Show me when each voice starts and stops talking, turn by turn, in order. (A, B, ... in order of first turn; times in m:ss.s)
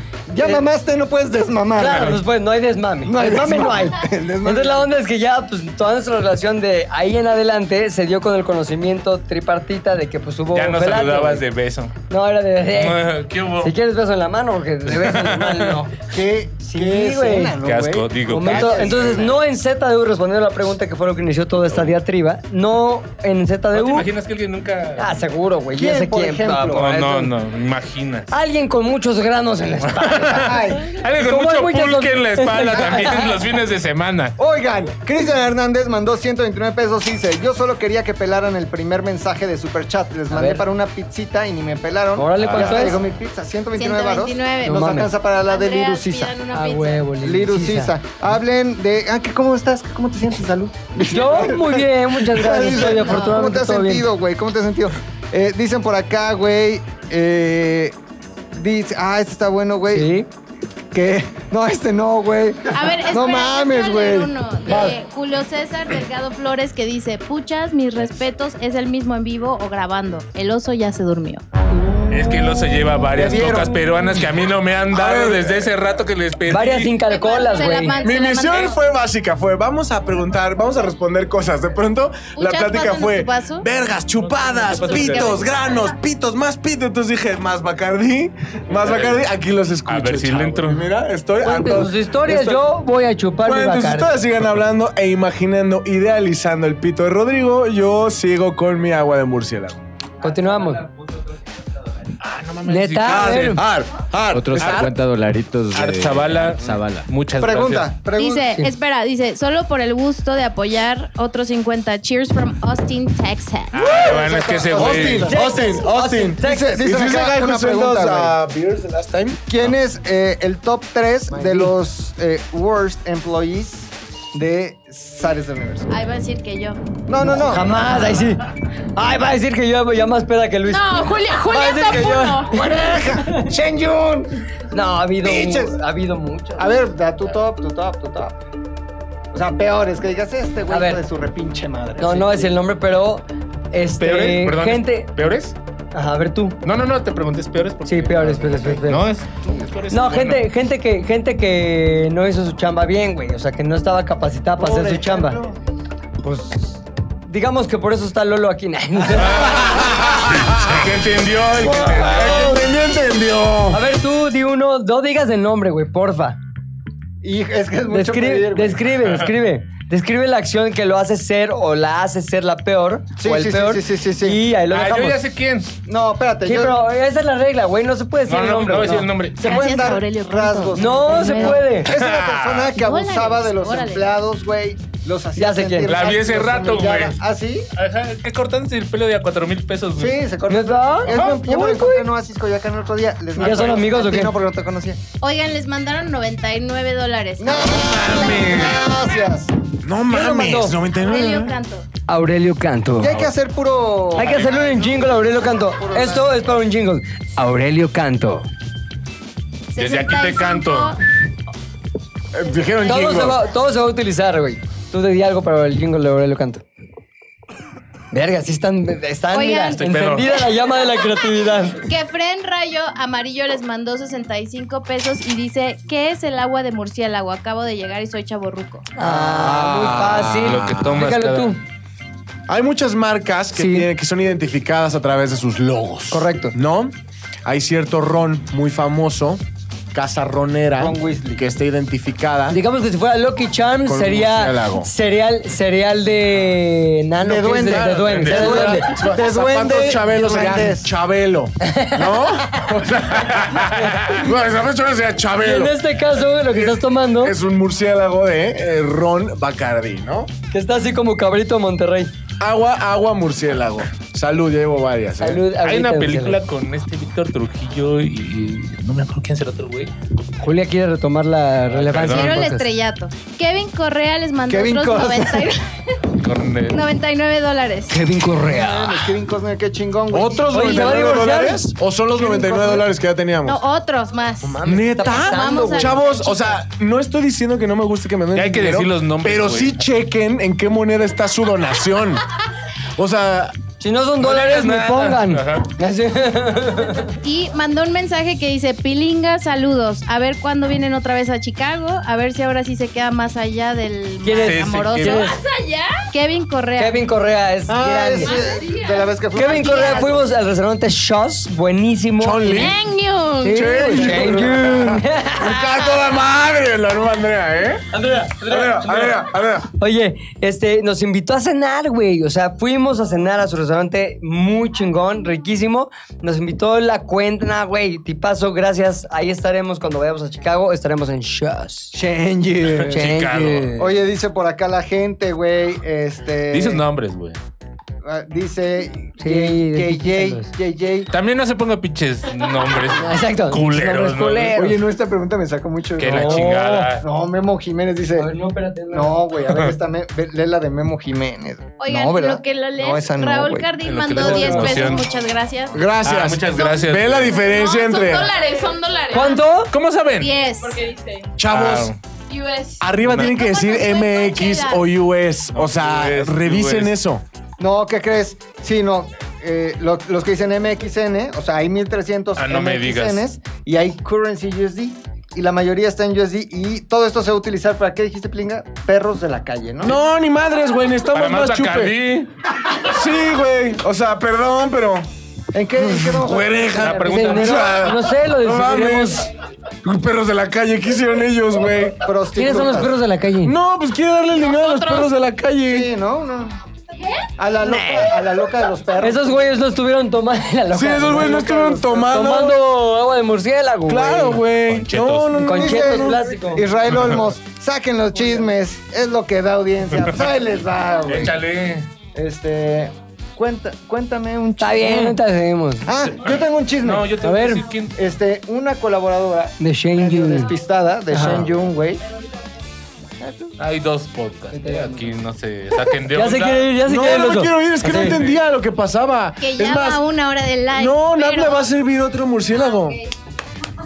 0:00.3-0:02.2 A
0:00.4-0:00.6 B
0:01.8-0:11.4 B
0:03.0-0:04.9 A
0:10.5-0:12.0 C
0:12.1-0:16.0 B
0:12.7-0:13.7 C
0:14.9-0:15.8 C
0:16.1-0:19.4 A
0:16.6-0:17.6 B
0:17.6-0:19.2 C
0:18.3-0:24.1 B
0:23.7-0:25.2 C
0:25.0-0:27.3 B
0:25.7-0:26.9 A
0:26.7-0:28.3 C
0:28.3-0:33.4 B
0:29.8-0:34.4 C
0:30.4-0:30.9 A
0:34.4-0:46.4 A
0:40.3-0:40.7 B
0:42.2-0:43.0 B
0:42.4-0:42.9 C
0:43.8-0:47.2 D
0:44.6-0:45.1 B
0:46.5-0:47.9 B
0:47.2-0:58.0 A
0:51.0-0:54.1 B
0:53.0-0:53.4 D
0:58.5-1:00.1 A
0:59.9-1:00.3 B
1:00.9-1:04.3 A
1:02.7-1:11.4 D
1:11.8-1:12.3 A
1:12.1-1:17.0 C
1:13.1-1:13.9 A
1:14.9-1:15.7 E
1:16.5-1:18.0 B
1:17.1-1:18.8 D
1:18.0-1:32.6 E
1:22.4-1:23.7 D
1:24.2-1:25.4 C
1:24.7-1:25.5 D
1:28.8-1:29.2 C
1:29.9-1:30.8 C
1:31.4-1:34.1 B
1:33.4-1:39.8 E
1:40.2-1:40.8 B
1:42.2-1:43.6 C
1:42.7-1:43.6 B
1:43.0-1:44.9 E
1:44.3-1:47.1 F
1:44.6-1:44.9 C
1:45.7-1:47.9 C
1:47.4-1:48.5 A
1:48.2-1:53.9 D
1:53.7-1:55.3 C
1:53.8-1:59.5 E
1:53.9-1:55.8 A
1:55.2-1:56.9 B
1:56.4-1:58.4 A
1:59.5-2:05.9 A
2:01.3-2:01.7 B
2:05.9-2:06.8 D
2:07.1-2:07.8 A
2:07.2-2:13.5 B
2:10.7-2:12.6 G
2:12.5-2:14.3 A
2:14.7-2:16.8 B
2:15.2-2:15.8 A
2:16.6-2:18.4 A
2:19.3-2:22.6 A
2:20.7-2:21.0 B
2:22.0-2:25.1 B
2:24.0-2:25.6 C
2:25.9-2:26.6 B
2:26.6-2:30.5 C
2:27.8-2:29.1 B
2:28.5-2:28.8 A
2:29.4-2:29.7 A
2:29.9-2:35.4 B
2:34.6-2:35.6 A
2:36.2-2:39.6 B
2:39.2-2:42.6 C
2:39.5-2:40.9 E
2:41.6-2:43.8 E
2:41.6-2:42.6 B
2:43.7-2:46.4 B
2:47.2-2:48.9 A
2:47.9-2:55.2 B
2:53.2-2:54.4 A
2:54.7-2:55.7 C
2:55.8-2:56.8 A
2:56.4-2:59.1 B
2:58.3-2:59.7 C
2:59.4-3:07.7 A
2:59.4-3:01.6 D
3:00.8-3:01.9 B
3:01.9-3:02.8 C
3:02.7-3:04.2 D
3:05.4-3:05.9 B
3:05.8-3:07.2 C
3:07.8-3:10.2 C
3:10.0-3:15.0 A
3:10.5-3:12.1 B
3:11.1-3:11.4 C
3:13.4-3:14.3 B
3:13.4-3:13.7 C
3:15.2-3:18.4 D
3:17.4-3:19.5 A
3:17.9-3:18.7 E
3:19.8-3:21.6 E
3:20.1-3:20.8 B
3:21.0-3:21.9 D
3:22.1-3:23.2 B
3:23.0-3:26.4 A
3:24.2-3:24.7 C
3:24.2-3:28.5 B
3:29.7-3:31.0 D
3:29.8-3:31.0 C
3:32.3-3:33.4 E
3:32.8-3:36.6 B
3:38.1-3:41.8 B
3:39.3-3:39.8 D
3:39.8-3:40.4 C
3:41.8-3:48.9 D
3:49.0-3:51.6 B
3:49.0-3:51.0 E
3:50.4-3:51.6 C
3:52.5-3:57.0 E
3:53.6-3:53.9 B
3:56.1-3:56.6 B
3:57.5-3:59.4 E
3:59.9-4:02.6 E
4:00.8-4:01.4 A
4:02.5-4:08.9 B
4:03.9-4:04.9 E
4:07.2-4:10.9 A
4:07.6-4:20.3 E
4:08.1-4:08.6 C
4:11.6-4:12.6 B
4:13.2-4:14.2 C
4:13.7-4:14.2 B
4:15.4-4:17.4 B
4:20.5-4:22.1 B
4:22.4-4:25.4 E
4:25.2-4:26.4 B
4:25.6-4:29.9 C
4:30.4-4:32.7 B
4:31.7-4:32.4 C
4:32.0-4:35.7 D
4:34.5-4:35.5 A
4:36.2-4:36.8 C
4:36.7-4:38.0 D
4:37.9-4:39.1 B
4:38.4-4:42.9 A
4:40.1-4:43.6 E
4:40.5-4:41.6 B
4:43.4-4:46.6 D
4:44.4-4:46.1 B
4:44.7-4:52.2 E
4:48.3-4:49.8 C
4:53.0-4:53.6 E
4:53.8-4:57.1 B
4:54.2-4:55.7 C
4:57.2-5:05.4 D
5:04.2-5:05.4 B
5:04.4-5:05.3 C
5:05.1-5:06.0 G
5:06.1-5:07.0 D
5:06.8-5:08.4 B
5:07.7-5:10.3 A
5:08.2-5:09.1 G
5:09.4-5:12.7 B
5:09.4-5:10.1 D
5:12.2-5:12.8 E
5:12.5-5:13.9 G
5:13.4-5:15.6 B
5:13.5-5:19.7 E
5:14.0-5:14.8 A
5:17.9-5:31.9 B
5:31.9-5:33.1 A
5:32.6-5:33.8 C
5:32.9-5:33.9 B
5:33.8-5:36.8 A
5:36.5-5:37.4 C
5:38.0-5:41.1 A
5:39.2-5:40.5 B
5:41.1-5:44.6 C
5:43.0-5:44.8 B
5:44.6-5:48.3 A
5:46.0-5:47.0 C
5:46.0-5:46.9 B
5:48.2-5:49.2 B
5:48.9-5:53.7 A
5:51.8-5:55.8 D
5:53.8-5:55.1 C
5:54.2-5:55.0 B
5:55.7-5:58.3 E
5:56.0-5:57.4 C
5:57.3-5:59.5 G
5:59.1-5:59.7 B
5:59.7-6:00.4 C
6:00.2-6:00.8 D
6:00.6-6:01.3 G
6:01.4-6:01.9 E
6:01.5-6:02.0 C
6:02.3-6:02.9 G
6:02.8-6:07.2 E
6:03.0-6:03.3 C
6:03.2-6:04.8 D
6:05.5-6:07.0 C
6:07.6-6:20.0 A
6:12.4-6:13.2 C
6:19.8-6:22.0 E
6:21.1-6:22.3 C
6:22.8-6:25.1 E
6:25.5-6:26.7 A
6:26.0-6:29.2 E
6:26.8-6:27.9 C
6:27.0-6:29.3 B
6:29.8-6:32.0 E
6:32.0-6:33.0 A
6:32.4-6:33.6 B
6:33.4-6:35.9 E
6:34.4-6:35.1 G
6:35.7-6:36.6 A
6:37.4-6:39.4 A
6:37.6-6:38.2 B
6:39.0-6:41.4 B
6:40.7-6:42.6 E
6:41.0-6:42.2 A
6:42.0-6:44.4 B
6:43.9-6:46.2 E
6:44.7-6:45.3 C
6:45.4-6:46.7 B
6:45.5-6:51.4 A
6:46.9-6:47.2 C
6:51.1-6:51.9 C
6:52.2-6:55.2 A
6:54.6-6:55.9 B
6:55.8-6:57.1 A
6:56.2-6:58.0 C
6:57.2-6:57.6 B
6:58.0-7:02.0 A
6:59.6-7:00.5 B
7:01.1-7:01.5 B
7:03.2-7:03.6 A
7:03.6-7:06.7 C
7:04.6-7:05.0 B
7:06.1-7:08.2 B
7:06.8-7:10.0 E
7:07.9-7:08.4 C
7:09.4-7:11.7 D
7:10.7-7:13.0 E